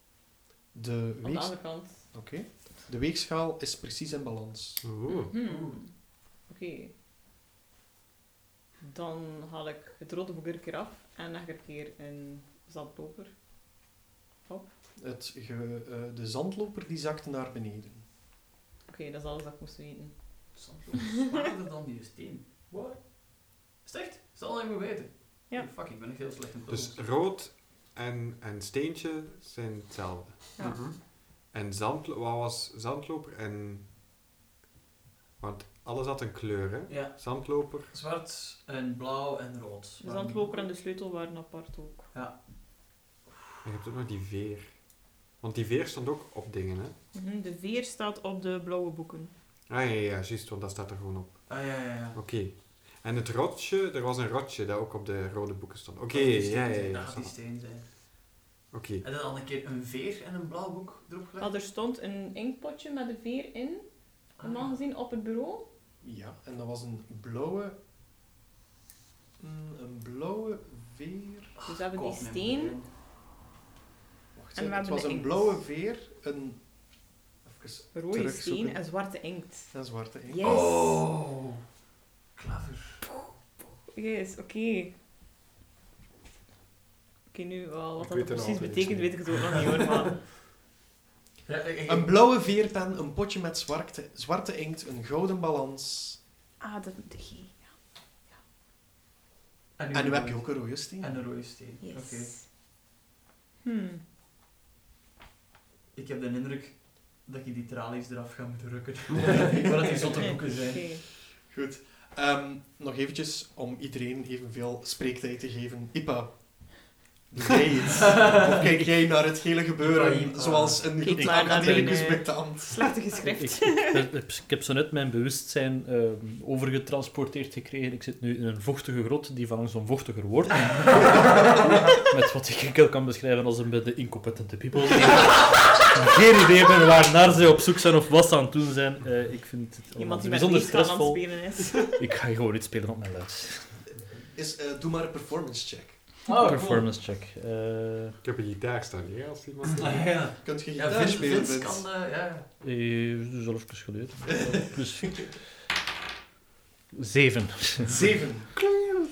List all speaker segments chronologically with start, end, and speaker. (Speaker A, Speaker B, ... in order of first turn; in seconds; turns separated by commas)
Speaker A: 0.7-4.9, Speaker B: 1.2-2.2, Speaker C: 4.8-5.3, Speaker B: 5.1-6.9, Speaker D: 5.4-5.8, Speaker B: 8.8-13.3, Speaker B: 14.5-14.7, Speaker A: 15.0-18.1, Speaker B: 18.9-20.2, Speaker D: 20.5-22.5, Speaker E: 22.7-23.0, Speaker D: 23.8-27.0, Speaker C: 26.7-30.6, Speaker B: 30.6-30.8, Speaker E: 30.6-30.9, Speaker D: 30.6-30.9, Speaker C: 31.5-33.9, Speaker C: 35.4-37.9, Speaker D: 36.9-40.7, Speaker B: 40.0-42.1, Speaker D: 42.1-43.0, Speaker C: 43.6-46.9, Speaker B: 47.1-49.3, Speaker C: 49.7-57.3, Speaker D: 51.5-52.2, Speaker D: 56.1-57.9, Speaker C: 58.7-59.0, Speaker D: 59.0-61.5, Speaker B: 61.4-63.9, Speaker B: 64.4-65.7, Speaker D: 64.4-64.8, Speaker A: 66.0-67.8, Speaker A: 69.4-71.6, Speaker D: 71.6-72.9, Speaker B: 71.7-72.8, Speaker A: 74.3-76.7, Speaker B: 74.5-75.6, Speaker A: 77.4-78.8, Speaker B: 77.9-79.7, Speaker A: 79.7-80.4, Speaker B: 80.3-81.1, Speaker D: 80.4-81.6, Speaker D: 82.4-83.0, Speaker B: 83.9-84.9, Speaker B: 87.3-90.3, Speaker E: 88.0-89.7, Speaker D: 91.5-92.1, Speaker A: 91.9-96.2, Speaker B: 96.6-97.7, Speaker D: 99.8-102.3, Speaker A: 99.9-101.4, Speaker B: 101.8-102.5, Speaker B: 103.6-104.0, Speaker D: 106.0-110.8, Speaker B: 110.1-111.0, Speaker A: 111.1-122.9, Speaker D: 118.0-118.6, Speaker D: 119.8-120.9, Speaker B: 121.0-124.0, Speaker F: 121.2-122.1, Speaker F: 123.2-143.8, Speaker B: 139.9-142.0, Speaker A: 144.2-146.0, Speaker D: 146.3-146.9, Speaker F: 146.3-148.2, Speaker C: 148.2-150.1, Speaker D: 149.8-152.5, Speaker A: 150.4-151.8, Speaker F: 152.6-155.3, Speaker A: 154.4-154.7, Speaker F: 156.9-158.0, Speaker A: 157.9-158.5